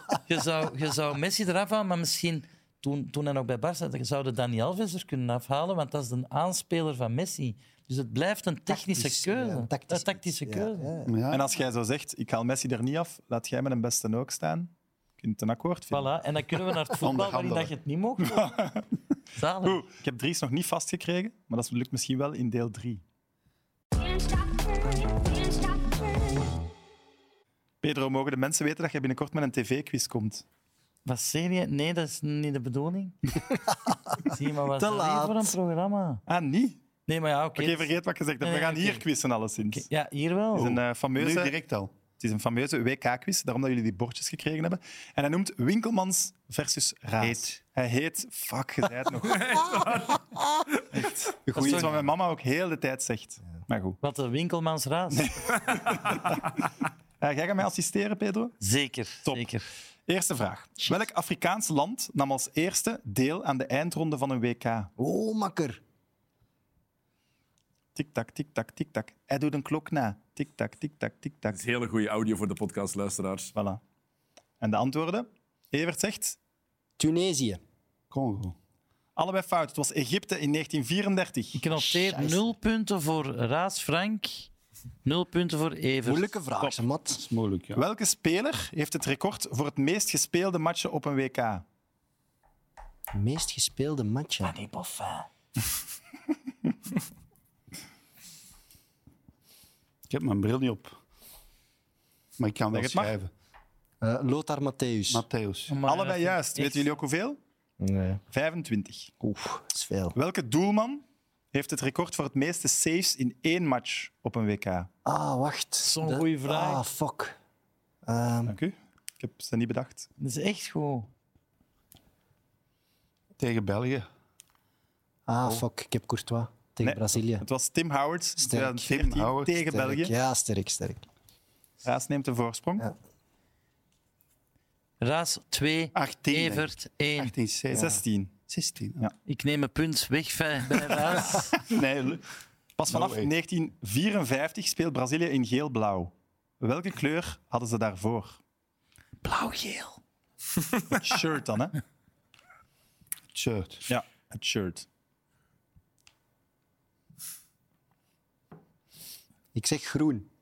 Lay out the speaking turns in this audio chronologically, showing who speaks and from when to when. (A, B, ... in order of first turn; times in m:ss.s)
0:00.2-0:10.9 A
0:08.7-0:11.1 B
0:11.0-0:11.4 C
0:11.3-0:16.1 D
0:15.9-0:18.5 A
0:17.0-0:17.7 C
0:18.2-0:18.8 D
0:19.4-0:19.8 A
0:19.6-0:23.0 D
0:27.8-0:30.4 D
0:31.0-0:33.4 A
0:34.2-0:36.2 A
0:34.8-0:35.6 B
0:36.3-0:36.8 D
0:37.1-0:39.0 A
0:37.6-0:39.8 D
0:39.7-0:40.8 A
0:40.5-0:41.5 D
0:41.2-0:41.9 C
0:42.2-0:49.6 D
0:47.2-0:47.6 C
0:49.2-0:50.2 E
0:50.9-0:54.0 D
0:51.5-0:51.9 B
0:51.6-0:51.9 A
0:54.0-0:55.3 A
0:55.1-0:56.4 D
0:57.2-0:58.5 D
0:58.6-0:59.6 A
1:00.1-1:04.9 D
1:05.0-1:05.8 B
1:07.9-1:11.6 D
1:11.5-1:13.5 E
1:13.5-1:13.8 D
1:14.6-1:16.4 D
1:17.0-1:17.6 B
1:18.1-1:18.6 C
1:19.2-1:21.6 D
1:21.5-1:24.5 A
1:21.8-1:22.5 B
1:25.0-1:26.3 A
1:26.0-1:27.2 B
1:27.1-1:27.8 C
1:27.7-1:31.6 D
1:33.1-1:34.6 B
1:34.4-1:35.2 A
1:40.1-1:41.0 C
1:42.4-1:43.3 C
1:42.7-1:43.1 D
1:44.0-1:45.2 B
1:45.1-1:45.7 C
1:45.7-1:46.9 A
1:45.8-1:47.4 D
1:47.8-1:48.2 B
1:48.3-1:49.2 D
1:49.2-1:50.1 B
1:50.1-1:54.9 D
1:55.0-1:57.4 B
1:55.8-1:56.8 A
1:58.0-1:58.5 B
1:58.5-2:00.1 D
2:00.2-2:01.1 A
2:03.4-2:04.1 C
2:05.3-2:07.4 B
2:06.8-2:10.1 D
2:08.4-2:08.8 B
2:08.8-2:09.5 C
2:09.6-2:11.0 B
2:11.8-2:12.9 D
2:15.0-2:17.3 A
2:15.9-2:19.0 C
2:17.7-2:18.0 B
2:17.7-2:18.3 D
2:19.2-2:21.6 A
2:21.6-2:22.2 C
2:22.8-2:28.4 D
2:22.9-2:23.3 C
2:29.2-2:29.9 A
2:30.9-2:31.8 D
2:33.3-2:33.9 C
2:33.9-2:34.9 D
2:39.5-2:40.3 B